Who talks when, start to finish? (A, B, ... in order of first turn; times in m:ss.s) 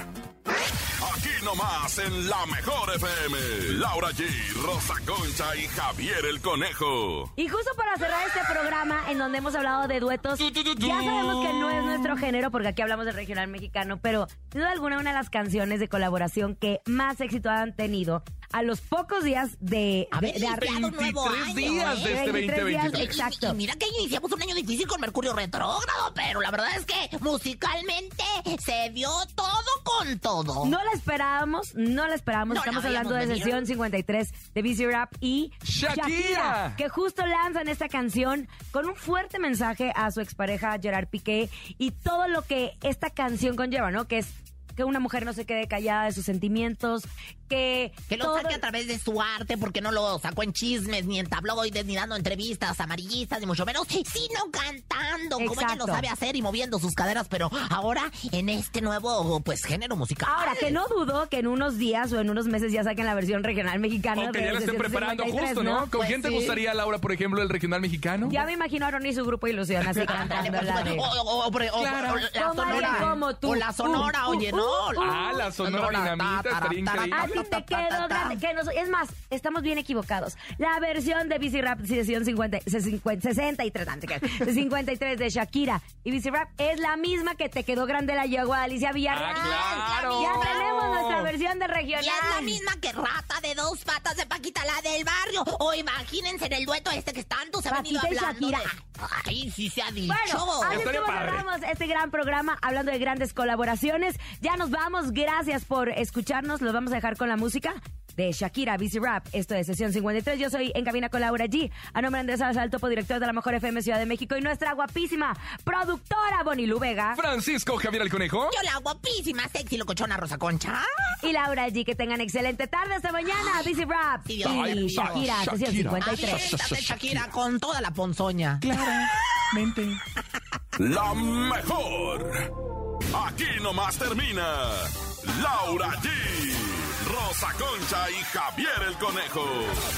0:01.0-0:07.3 A
0:07.4-0:21.0 B
0:10.6-0:12.2 C
0:20.1-0:22.3 D
0:20.8-0:23.2 C
0:21.6-0:23.6 B
0:22.9-0:30.8 D
0:30.6-0:48.6 B
0:32.5-0:33.7 D
0:35.6-0:36.8 C
0:48.1-1:00.8 D
0:55.4-0:56.1 B
1:00.3-1:05.9 B
1:04.1-1:08.4 C
1:06.0-1:06.6 D
1:08.3-1:11.1 B
1:09.8-1:10.8 C
1:10.0-1:18.4 D
1:11.8-1:13.2 C
1:12.4-1:15.5 B
1:15.0-1:17.4 C
1:17.1-1:32.6 B
1:29.1-1:31.3 C
1:29.3-1:30.6 D
1:32.0-1:40.9 D
1:37.7-1:38.7 B
1:40.1-1:57.2 B
1:40.7-1:41.5 C
1:57.1-1:58.6 C
1:58.5-2:01.1 D
2:01.2-2:06.5 B
2:03.3-2:05.3 D
2:04.4-2:07.2 C
2:06.0-2:08.6 D
2:08.6-2:10.0 C
2:10.8-2:12.4 A
2:13.1-2:19.8 A